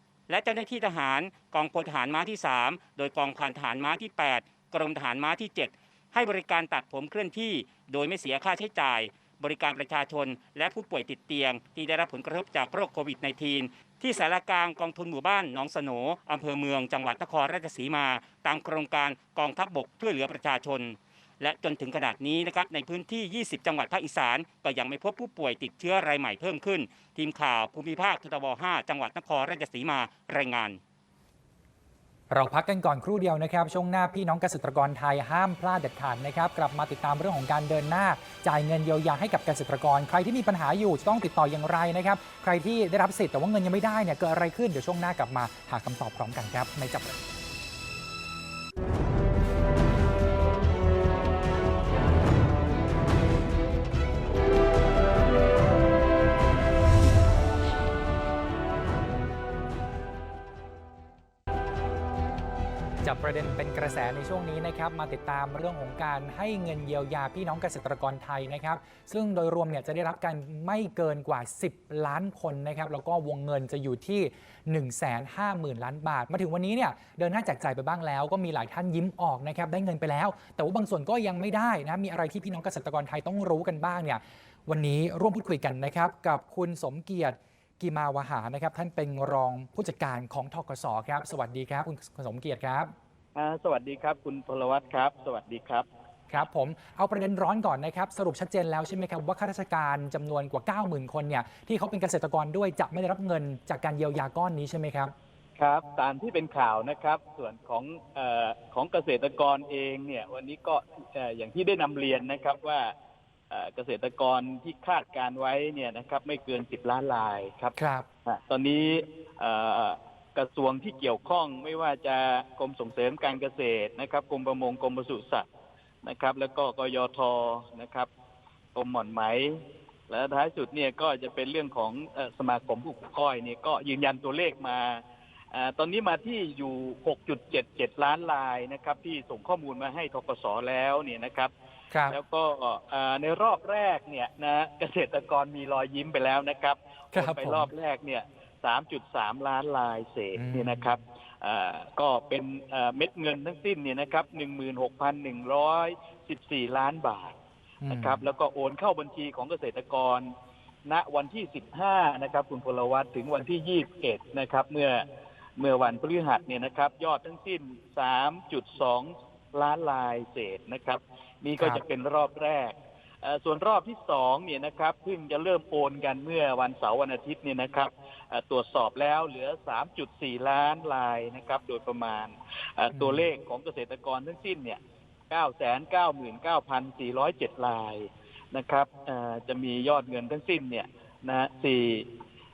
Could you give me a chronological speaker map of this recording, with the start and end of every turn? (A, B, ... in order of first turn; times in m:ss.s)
0:00.3-0:30.8 A
0:32.3-0:47.2 B
1:03.0-1:32.9 B
1:33.4-1:35.9 C
1:36.3-1:45.1 B
1:45.6-1:52.9 C
1:53.5-2:05.5 C
1:57.8-1:58.1 B
2:06.0-2:08.1 C
2:08.8-2:21.5 C
2:21.9-2:22.2 B
2:22.1-2:37.4 C
2:27.1-2:27.7 B
2:30.4-2:30.9 B
2:37.8-2:38.2 B
2:37.9-2:40.3 C
2:40.9-2:45.0 C
2:45.6-3:12.1 C
3:02.9-3:03.2 B